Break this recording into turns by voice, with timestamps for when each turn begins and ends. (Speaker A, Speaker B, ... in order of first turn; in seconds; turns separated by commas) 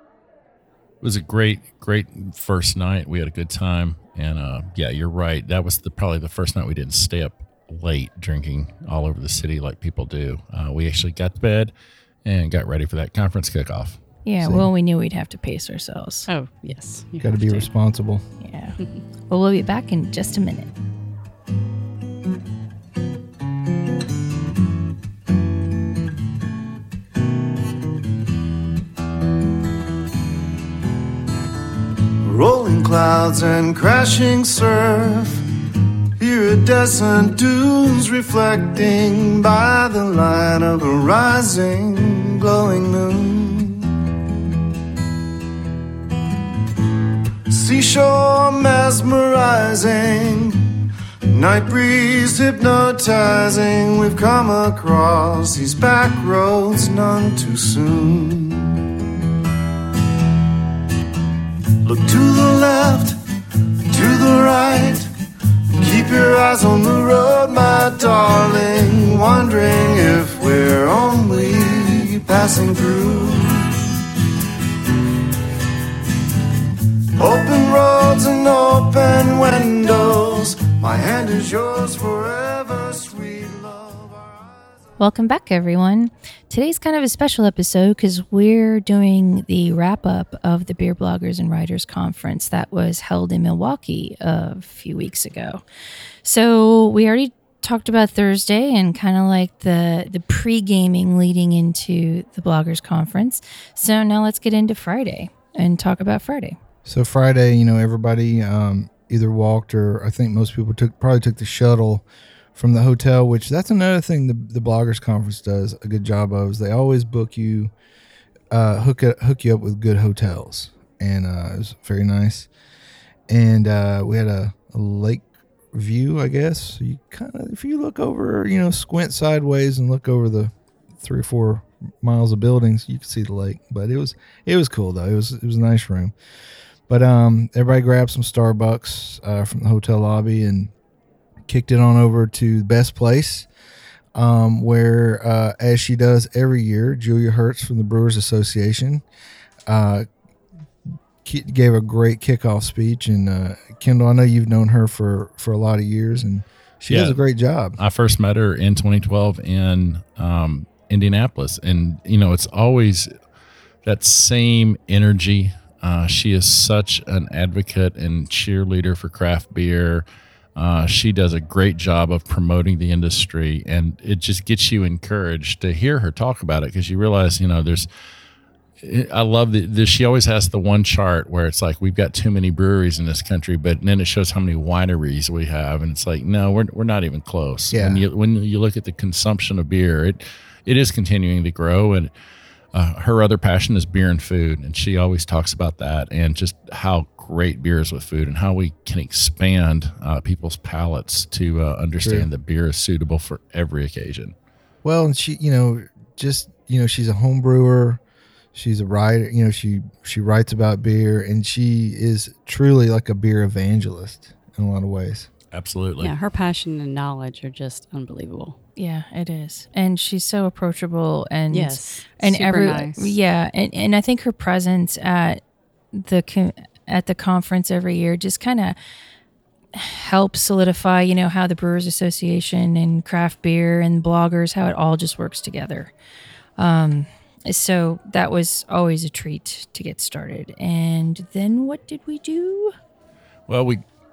Speaker A: 1.0-11.7, Speaker A: 12.2-14.0, Speaker B: 14.2-16.3, Speaker C: 14.4-14.7, Speaker D: 16.3-17.7, Speaker C: 17.2-18.2, Speaker B: 18.4-18.8, Speaker B: 19.3-20.7, Speaker E: 32.2-35.5, Speaker E: 36.2-44.0, Speaker E: 47.5-50.8, Speaker E: 51.3-58.8, Speaker E: 61.8-63.2, Speaker E: 63.9-65.1, Speaker E: 65.8-73.8, Speaker E: 77.2-84.7, Speaker B: 85.0-95.6, Speaker B: 96.2-106.6, Speaker C: 106.8-117.7, Speaker C: 118.5-122.5, Speaker C: 123.3-136.1, Speaker C: 136.9-140.7, Speaker C: 141.5-143.5, Speaker C: 144.1-149.0, Speaker C: 149.7-150.1, Speaker C: 151.2-157.8, Speaker A: 156.9-157.2, Speaker A: 157.8-163.1, Speaker A: 163.8-170.0, Speaker A: 170.6-177.9, Speaker A: 178.8-192.1, Speaker C: 187.7-188.0, Speaker A: 192.7-204.3, Speaker C: 202.0-202.3, Speaker C: 204.8-208.0, Speaker C: 208.5-215.3, Speaker A: 215.5-216.1, Speaker D: 216.0-218.6, Speaker B: 218.8-225.4, Speaker D: 221.5-223.1, Speaker B: 225.9-228.8, Speaker B: 229.7-235.9, Speaker B: 236.6-242.7, Speaker A: 243.5-243.8